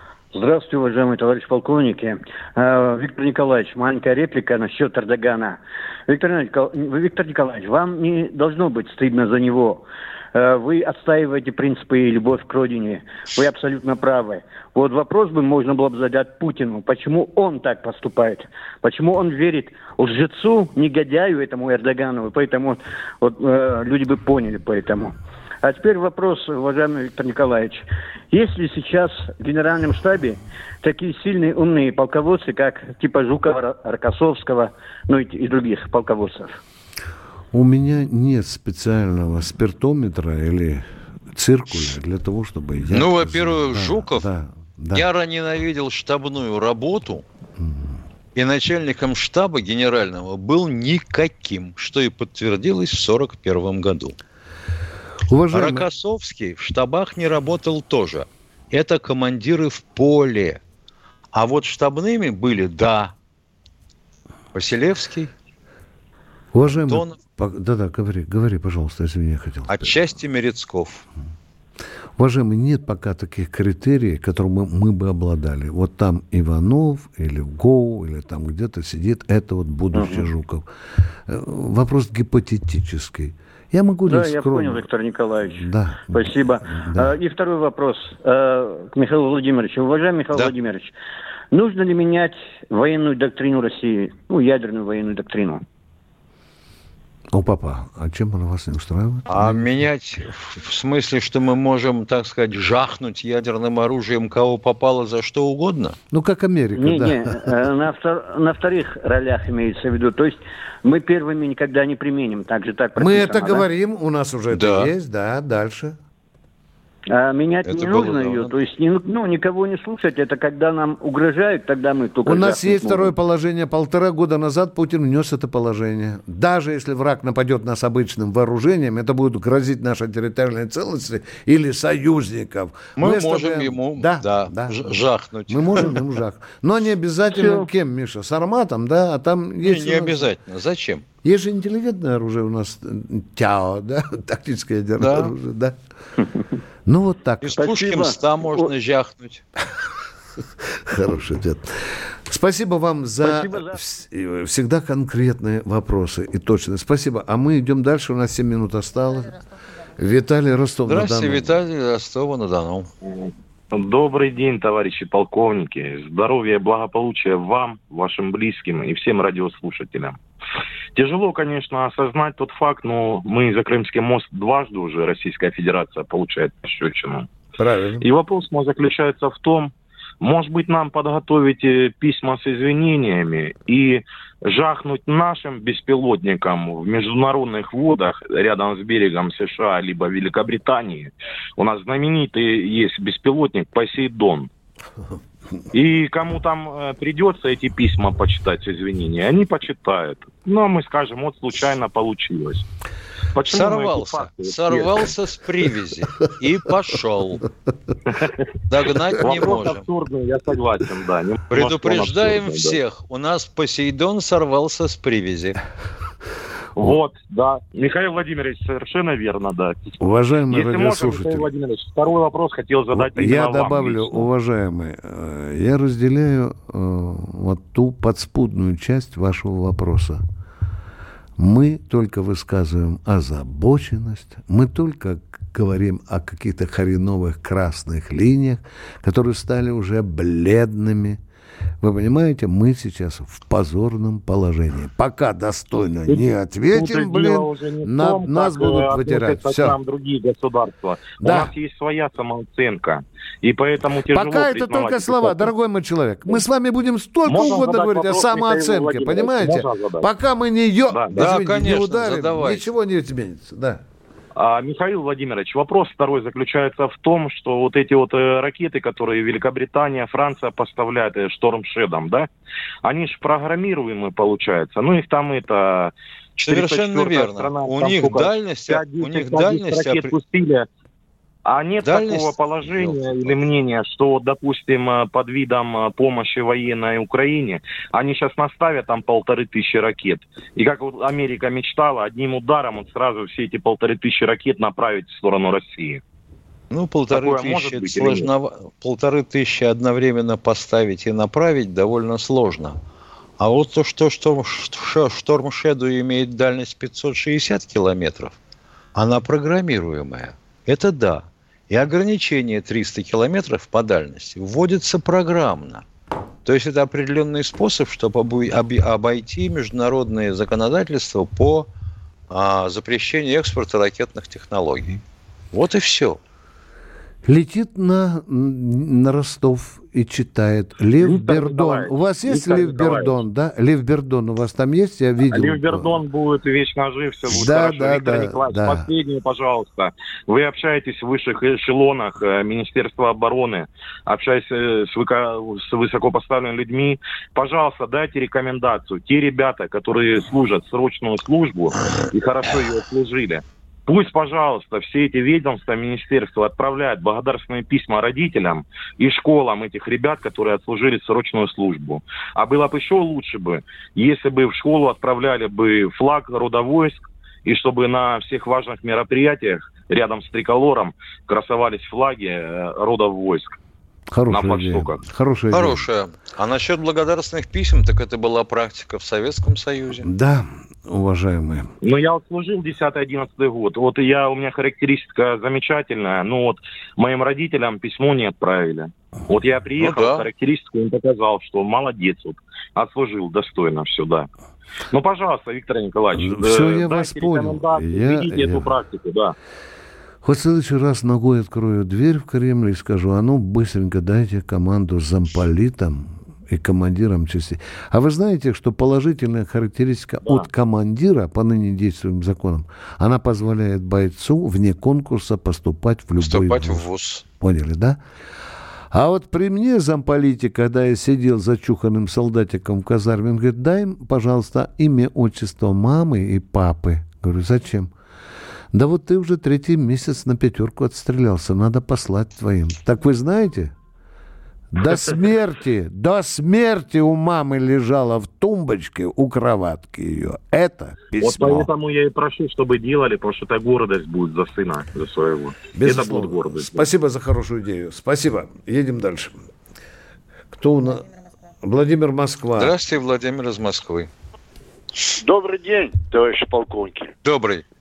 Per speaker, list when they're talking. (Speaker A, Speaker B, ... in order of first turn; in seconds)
Speaker A: 0.3-36.6, 79.9-80.2, 84.1-90.9, 91.5-95.6, 106.8-113.7, 117.1-123.1, 137.3-137.7, 147.6-148.7
Speaker B: 37.5-45.0, 47.6-48.0, 55.3-55.9, 66.5-70.0, 72.2-80.7, 81.3-84.9, 85.5-87.1, 97.3-99.7, 106.1-107.5, 113.0-116.0, 122.2-140.3, 141.2-145.8, 146.8-147.6, 150.9-151.6, 152.3-159.4, 160.0-161.6, 177.6-178.1, 220.0-221.5, 222.9-230.2, 231.4-241.2, 241.8-249.8, 251.2-251.5, 254.1-263.8, 327.2-336.0, 337.3-338.9, 374.1-375.8, 380.0-381.7, 396.1-398.7, 400.2-416.9, 417.4-418.0, 418.9-427.9, 428.7-433.7, 434.7-441.7, 445.7-449.4, 450.5-451.1, 451.6-452.7
Speaker C: 42.9-44.2, 44.9-47.2, 48.3-54.1, 55.5-60.6, 61.3-63.1, 64.5-65.3, 66.9-67.2, 69.7-71.0, 99.3-106.0, 114.5-114.9, 117.6-118.5, 132.9-136.0, 139.6-141.0, 145.0-145.3, 147.4-149.4, 160.9-162.9, 203.4-207.4, 208.7-209.9, 211.5-215.6, 261.1-262.7, 276.4-280.1, 281.8-283.4, 296.7-302.8, 303.4-308.4, 308.9-315.8, 316.4-321.7, 322.3-325.0, 325.5-326.2, 375.5-380.1, 389.8-390.3, 416.2-417.2, 452.6-454.1, 457.2-457.6
Speaker D: 163.1-170.2, 170.9-177.3, 178.0-194.5, 195.7-202.6, 203.3-205.0, 209.2-212.8, 216.8-220.0, 220.5-224.3, 246.1-255.5, 257.2-260.1, 260.9-261.2, 264.4-272.3, 272.8-275.9, 276.4-280.7, 281.4-296.0, 297.1-298.3, 331.0-333.2, 335.2-373.6, 374.3-375.0, 381.8-394.3, 394.9-399.3, 441.2-446.9
Speaker E: 455.2-457.1